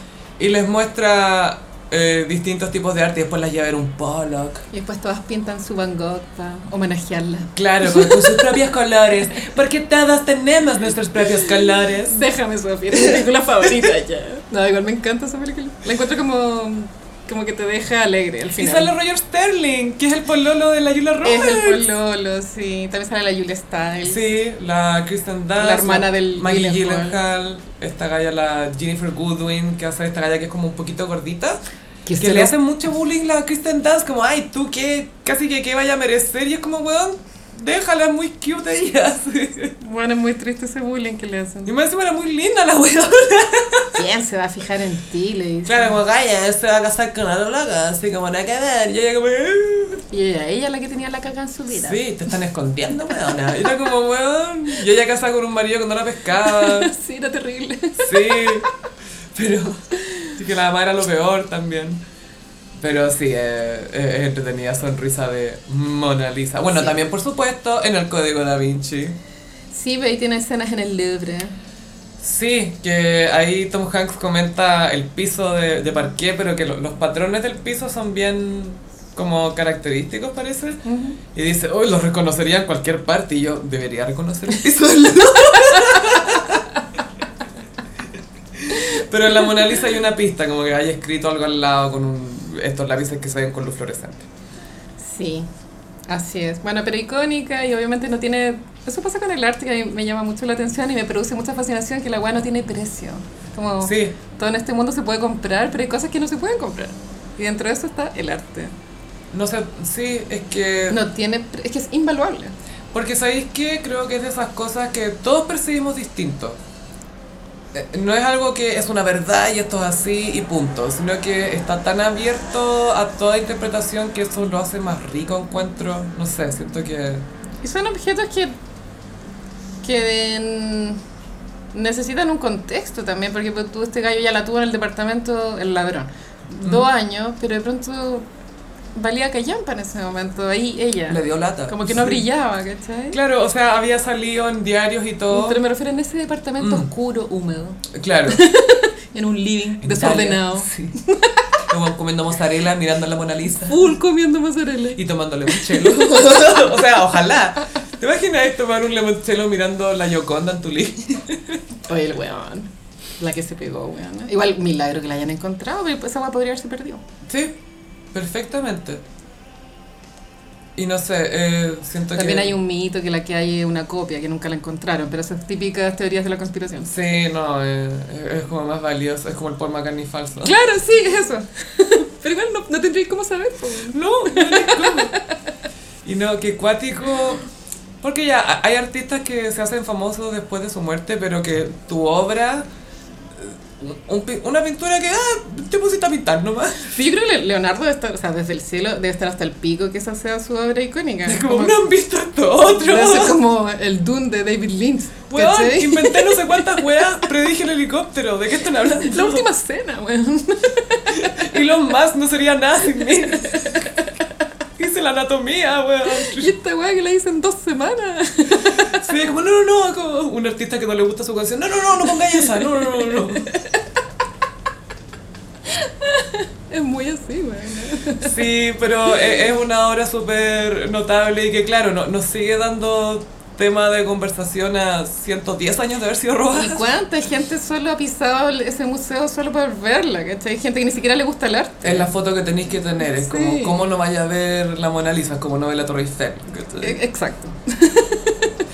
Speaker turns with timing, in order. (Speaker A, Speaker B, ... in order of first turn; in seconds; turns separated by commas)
Speaker A: 0.4-4.6, Speaker B: 4.7-8.6, Speaker A: 7.5-12.2, Speaker B: 12.0-18.9, Speaker A: 12.9-13.2, Speaker A: 18.6-21.9, Speaker B: 21.2-24.2, Speaker A: 24.0-31.6, Speaker B: 25.6-27.2, Speaker B: 32.0-32.5, Speaker A: 32.2-39.8, Speaker B: 39.8-41.7, Speaker A: 41.6-44.0, Speaker B: 43.9-46.0, Speaker A: 45.6-50.0, Speaker B: 50.1-52.0, Speaker A: 51.7-56.9, Speaker B: 56.4-58.7, Speaker A: 58.0-58.7, Speaker A: 59.3-62.0, Speaker B: 60.0-60.4, Speaker A: 62.8-69.2, Speaker B: 66.7-67.0, Speaker B: 69.7-71.6, Speaker A: 72.2-80.8, Speaker B: 80.8-81.2, Speaker A: 81.3-86.7, Speaker B: 85.6-86.2, Speaker A: 88.6-94.2, Speaker B: 95.0-95.5, Speaker B: 96.1-108.7, Speaker A: 103.8-104.1, Speaker A: 109.3-111.0, Speaker B: 110.9-112.5, Speaker A: 112.9-116.6, Speaker A: 117.7-127.2, Speaker B: 127.6-128.6, Speaker B: 129.8-131.0, Speaker B: 131.7-138.2, Speaker B: 138.9-143.2, Speaker A: 141.1-142.2, Speaker A: 143.1-145.6, Speaker B: 145.3-151.6, Speaker A: 146.6-146.9, Speaker A: 147.9-148.4, Speaker A: 149.8-150.9, Speaker A: 151.7-153.9, Speaker B: 153.6-156.6, Speaker A: 154.9-161.6, Speaker B: 161.9-167.0, Speaker A: 167.2-167.6, Speaker A: 168.1-169.0, Speaker A: 170.8-172.5, Speaker B: 172.1-176.9, Speaker A: 176.8-180.6, Speaker B: 180.4-185.4, Speaker A: 183.9-185.2, Speaker A: 186.0-187.4, Speaker A: 188.0-192.7, Speaker A: 193.3-196.9, Speaker B: 196.8-201.8, Speaker A: 201.2-203.4, Speaker B: 202.8-206.8, Speaker A: 205.3-209.4, Speaker B: 209.0-211.5, Speaker A: 211.1-213.8, Speaker B: 213.4-214.2, Speaker A: 214.8-216.5, Speaker B: 216.1-219.1, Speaker A: 218.9-223.5, Speaker B: 222.3-223.8, Speaker B: 225.7-228.4, Speaker A: 228.2-236.8, Speaker B: 236.5-242.1, Speaker A: 241.8-247.0, Speaker B: 243.1-243.9, Speaker B: 246.8-248.6